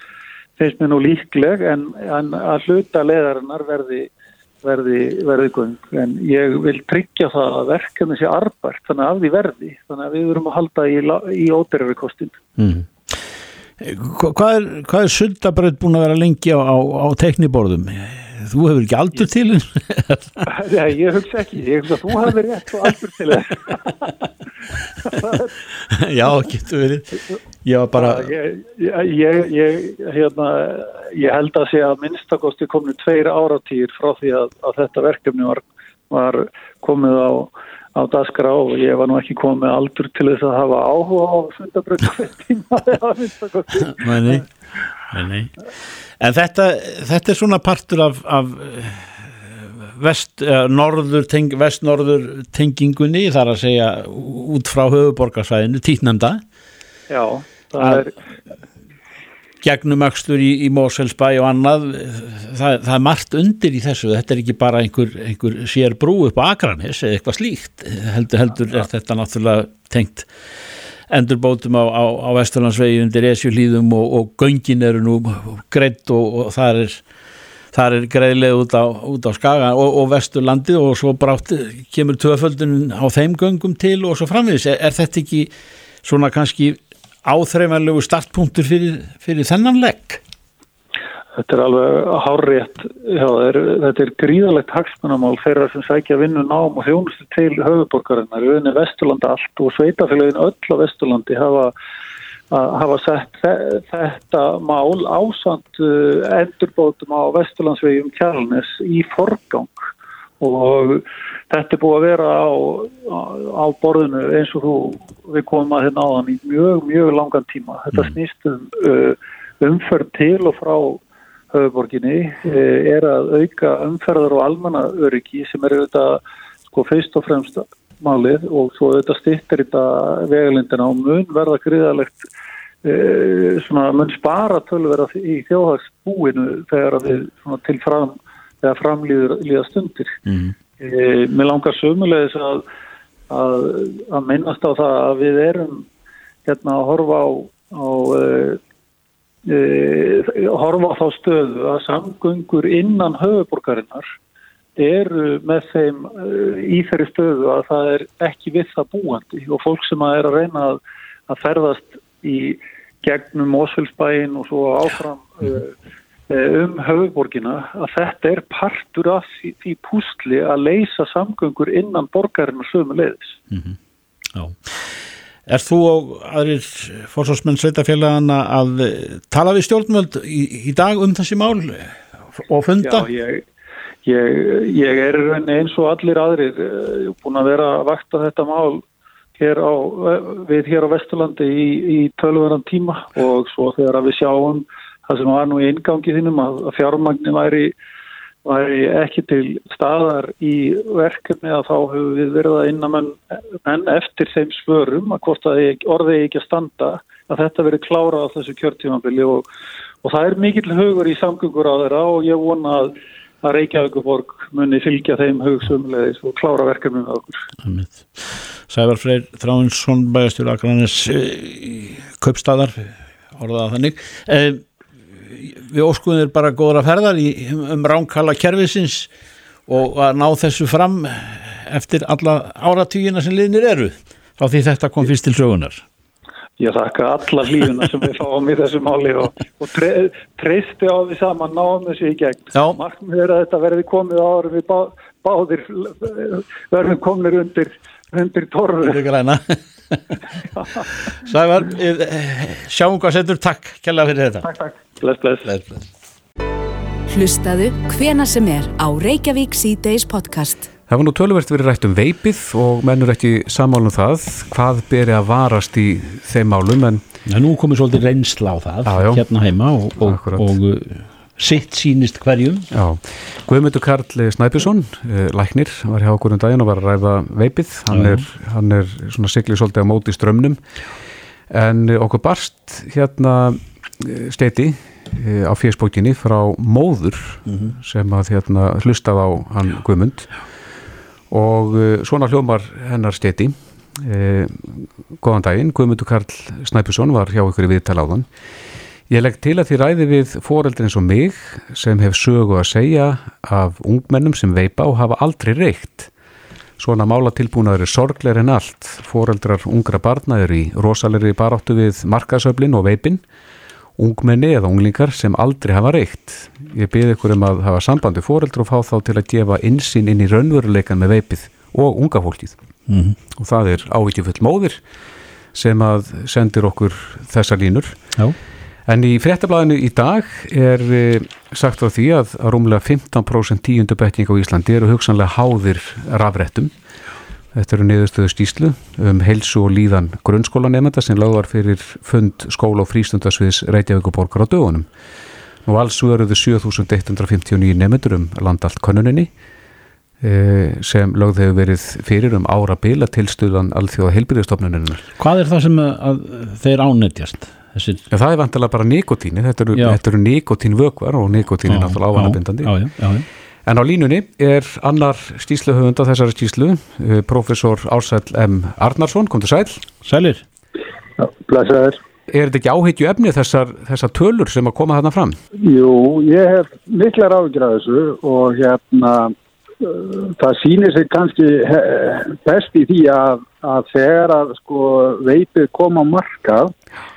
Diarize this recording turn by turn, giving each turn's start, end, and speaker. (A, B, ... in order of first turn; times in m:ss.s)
0:00.6-0:04.1 A
0:04.6-0:12.4 A
0:12.6-0:13.2 B
0:13.8-0:20.5 B
0:20.5-0:24.2 A
0:25.0-0:25.6 A
0:25.9-0:28.3 B
0:28.0-0:44.4 A
0:43.8-0:44.5 B
0:45.1-0:45.5 B
0:46.2-0:56.4 B
0:57.1-0:58.2 A
0:57.8-0:58.1 B
0:59.6-1:10.3 B
1:11.1-1:17.0 B
1:17.7-1:25.5 B
1:26.0-1:30.2 B
1:31.4-1:41.7 A
1:42.5-1:49.9 A
1:50.4-2:01.0 A
2:01.5-2:12.3 A
2:12.8-2:20.2 A
2:20.3-2:20.6 B
2:20.8-2:22.6 A
2:23.3-2:25.9 A
2:26.5-2:28.6 A
2:29.5-2:34.1 A
2:34.8-2:45.7 A
2:46.3-2:53.4 A
2:53.5-2:53.8 B
2:54.3-2:55.0 B
2:55.5-3:03.1 B
3:02.8-3:03.4 A
3:04.0-3:08.8 A
3:09.4-3:17.7 A
3:18.4-3:29.5 A
3:30.0-3:37.4 A
3:37.6-3:44.6 B
3:45.2-3:49.1 B
3:49.7-3:55.8 B
3:56.6-4:09.0 A
4:02.6-4:02.8 B
4:08.8-4:10.2 B
4:11.2-4:14.5 B
4:14.4-4:15.5 A
4:15.4-4:15.8 B
4:17.1-4:20.7 C
4:20.9-4:27.0 D
4:27.3-4:32.7 B
4:28.9-4:29.2 D
4:30.0-4:30.5 D
4:32.7-4:40.6 D
4:37.9-4:38.3 B
4:41.5-4:50.3 D
4:47.5-4:47.7 B
4:51.3-4:58.3 D
4:59.1-5:06.1 D
5:06.8-5:13.2 D
5:14.0-5:22.6 D
5:22.9-5:23.2 B
5:23.4-5:24.8 D
5:25.5-5:28.0 D
5:28.9-5:36.7 D
5:37.5-5:44.9 D
5:45.7-5:49.3 D
5:50.2-5:55.0 D
5:55.2-5:58.0 B
5:58.1-6:02.7 D
6:01.7-6:03.3 B
6:03.7-6:09.8 D
6:10.0-6:10.4 B
6:11.2-6:12.0 E
6:12.3-6:15.4 D
6:15.6-6:26.7 E